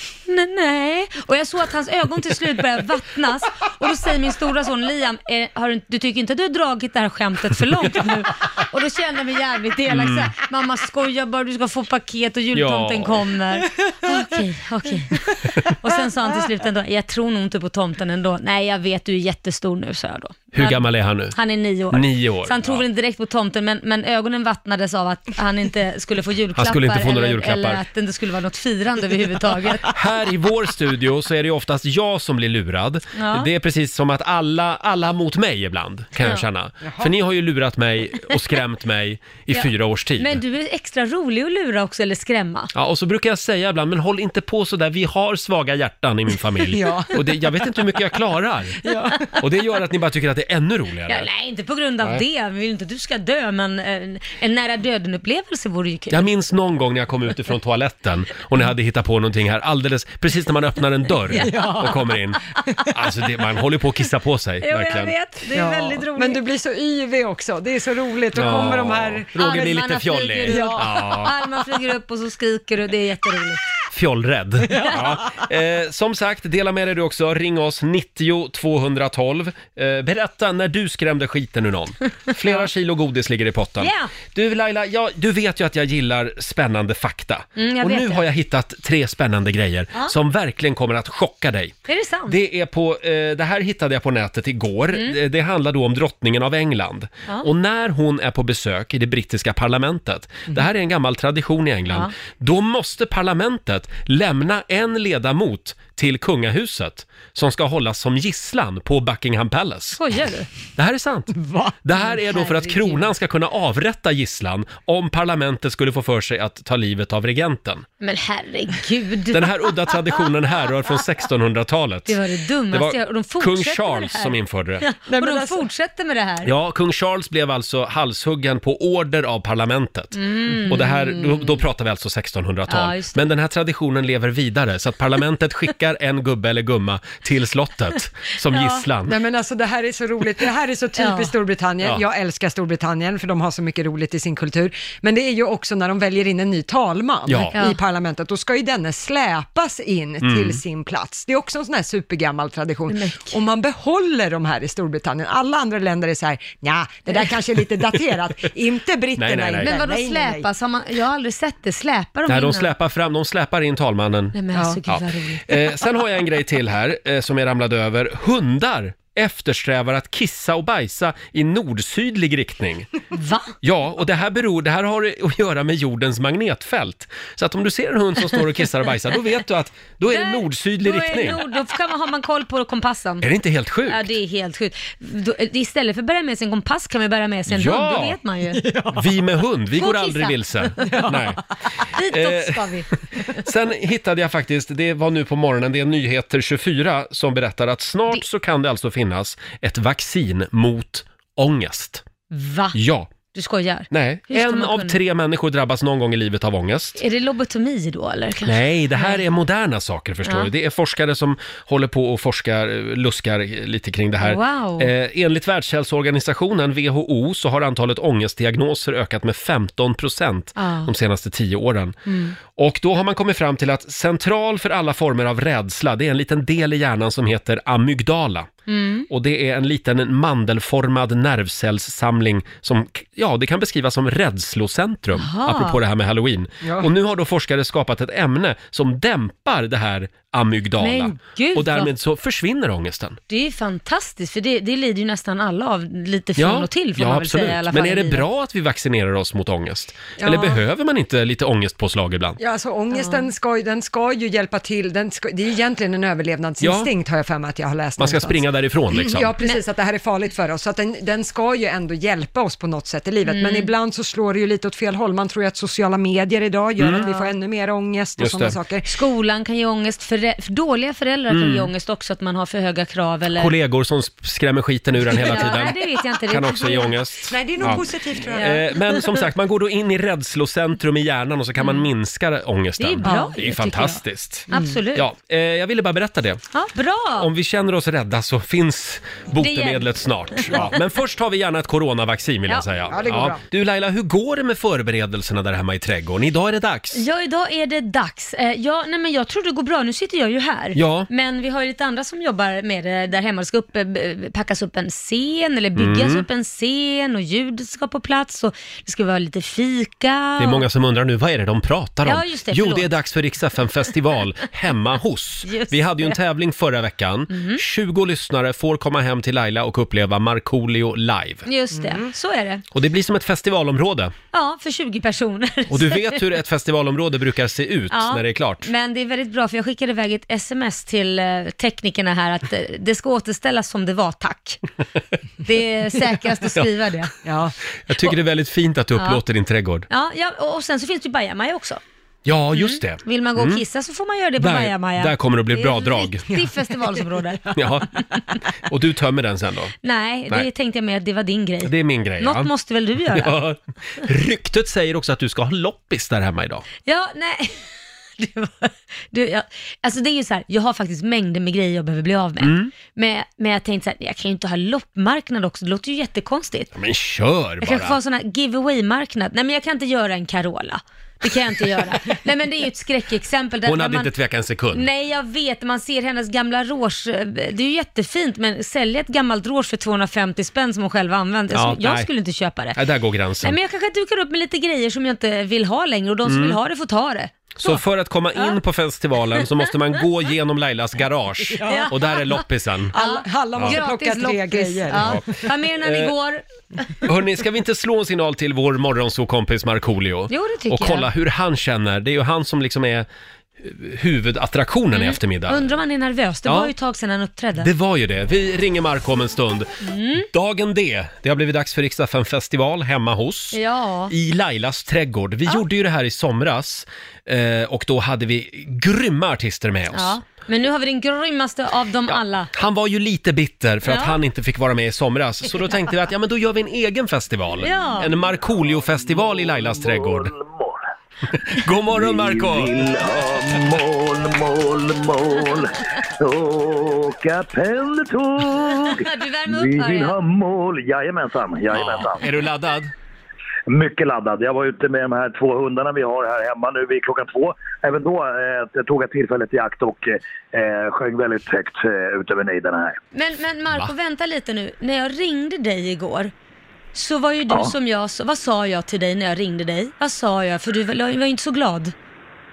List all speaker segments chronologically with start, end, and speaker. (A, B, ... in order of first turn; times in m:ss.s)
0:00.2-0:29.9 A
0:09.9-0:10.3 B
0:12.5-0:13.2 B
0:20.5-0:21.4 B
0:21.9-0:22.8 B
0:26.6-0:27.8 B
0:29.9-0:40.4 B
0:33.1-0:33.5 A
0:36.2-0:36.4 A
0:36.8-0:37.1 C
0:39.5-0:42.7 A
0:42.7-0:48.8 B
0:46.7-0:47.6 C
0:48.8-0:49.3 C
0:49.4-0:51.3 B
0:51.1-0:56.3 A
0:56.1-1:05.1 B
1:01.3-1:02.0 C
1:04.6-1:06.4 A
1:05.5-1:09.8 C
1:08.3-1:11.3 B
1:09.4-1:13.6 A
1:10.5-1:11.0 C
1:13.9-1:31.8 B
1:23.8-1:24.1 A
1:27.6-1:28.2 A
1:31.9-1:32.4 A
1:32.3-1:50.0 B
1:49.9-1:50.5 A
1:50.8-1:57.8 B
1:51.3-1:51.8 C
1:52.2-1:53.0 A
1:58.0-2:00.2 A
1:59.3-2:02.2 B
2:02.0-2:06.5 A
2:02.7-2:04.8 B
2:05.1-2:05.7 C
2:06.4-2:19.2 B
2:10.1-2:11.6 A
2:12.7-2:13.2 A
2:18.5-2:18.8 A
2:19.1-2:40.5 C
2:21.0-2:21.3 A
2:27.3-2:27.6 B
2:30.2-2:30.6 B
2:32.9-2:33.4 A
2:39.2-2:39.7 B
2:39.6-2:42.7 A
2:42.3-2:52.9 B
2:44.3-2:45.7 A
2:44.5-2:44.8 C
2:53.1-2:53.5 A
2:53.6-3:01.4 B
3:00.1-3:03.3 A
3:03.2-3:04.1 B
3:03.8-3:08.6 A
3:07.5-3:08.2 B
3:08.6-3:09.1 C
3:08.9-3:11.4 B
3:09.8-3:11.1 A
3:10.8-3:11.2 C
3:11.8-3:12.9 A
3:12.1-3:12.7 B
3:13.3-3:22.0 B
3:22.3-3:22.8 A
3:22.7-3:23.1 B
3:23.3-3:25.0 A
3:23.9-3:27.0 B
3:27.0-3:29.2 A
3:28.4-3:42.0 B
3:30.2-3:30.5 A
3:34.2-3:34.9 A
3:40.6-3:40.9 A
3:42.0-3:42.4 A
3:42.5-3:48.5 B
3:48.7-3:49.1 A
3:49.1-4:03.2 B
3:55.1-3:55.8 A
3:56.6-3:56.9 C
4:00.8-4:01.9 A
4:03.3-4:08.2 A
4:06.4-4:12.4 B
4:10.2-4:10.6 C
4:12.4-4:28.9 C
4:12.9-4:13.2 A
4:16.6-4:16.9 B
4:18.0-4:19.3 B
4:23.2-4:23.7 A
4:26.8-4:27.0 B
4:26.9-4:27.3 A
4:28.2-4:28.6 B
4:28.8-4:33.5 A
4:31.3-4:31.7 B
4:33.3-4:46.4 B
4:35.1-4:37.0 A
4:35.3-4:35.9 C
4:37.3-4:38.6 C
4:38.4-4:39.0 A
4:42.8-4:45.1 A
4:43.0-4:43.3 C
4:44.5-4:44.8 C
4:46.5-4:47.3 A
4:47.2-4:57.0 B
4:49.4-4:50.7 A
4:52.9-4:53.4 C
4:56.9-5:10.6 A
5:00.7-5:01.1 B
5:05.8-5:06.3 B
5:10.4-5:21.4 B
5:12.0-5:12.9 A
5:15.4-5:16.2 A
5:17.3-5:17.6 A
5:21.4-5:22.6 A
5:21.7-5:22.1 C
5:22.7-5:24.1 B
5:24.3-5:26.2 A
5:25.7-5:28.7 B
5:27.9-5:34.6 A
5:35.4-5:37.1 A
5:37.2-5:37.5 C
5:37.9-5:39.9 B
5:38.9-5:39.2 A
5:39.9-5:41.8 A
5:42.2-5:43.6 B
5:42.5-5:47.5 A
5:44.4-5:46.2 B
5:46.3-5:47.0 C
5:47.5-5:47.9 B
5:48.6-5:49.7 B
5:49.8-5:53.4 A
5:51.6-5:52.5 B
5:53.1-5:56.6 B
5:56.8-6:06.7 A
6:02.4-6:02.7 B
6:06.7-6:08.0 B
6:07.6-6:14.1 A
6:13.6-6:14.9 B
6:14.7-6:22.8 A
6:21.5-6:22.1 B
6:22.7-6:23.6 B
6:23.4-6:27.8 A
6:26.2-6:26.6 B
6:27.6-6:32.9 B
6:31.6-6:31.9 C
6:31.6-6:32.4 A
6:32.9-6:35.4 C
6:33.0-6:37.0 A
6:33.6-6:33.8 B
6:35.0-6:36.1 B
6:37.0-6:43.0 B
6:40.3-6:41.1 A
6:43.6-6:45.6 B
6:44.9-6:47.7 A
6:46.4-6:46.7 B
6:47.6-6:49.7 B
6:49.8-6:50.3 A
6:50.3-7:00.2 B
6:53.5-6:54.1 A
6:59.9-7:02.5 A
7:02.1-7:10.3 B
7:03.8-7:04.2 A
7:07.6-7:08.1 A
7:08.8-7:10.8 D
7:11.5-7:12.8 B
7:11.9-7:22.2 D
7:18.7-7:20.2 A
7:21.7-7:22.9 B
7:23.7-7:33.0 D
7:33.1-7:36.3 A
7:36.9-7:41.9 A
7:37.5-7:37.7 D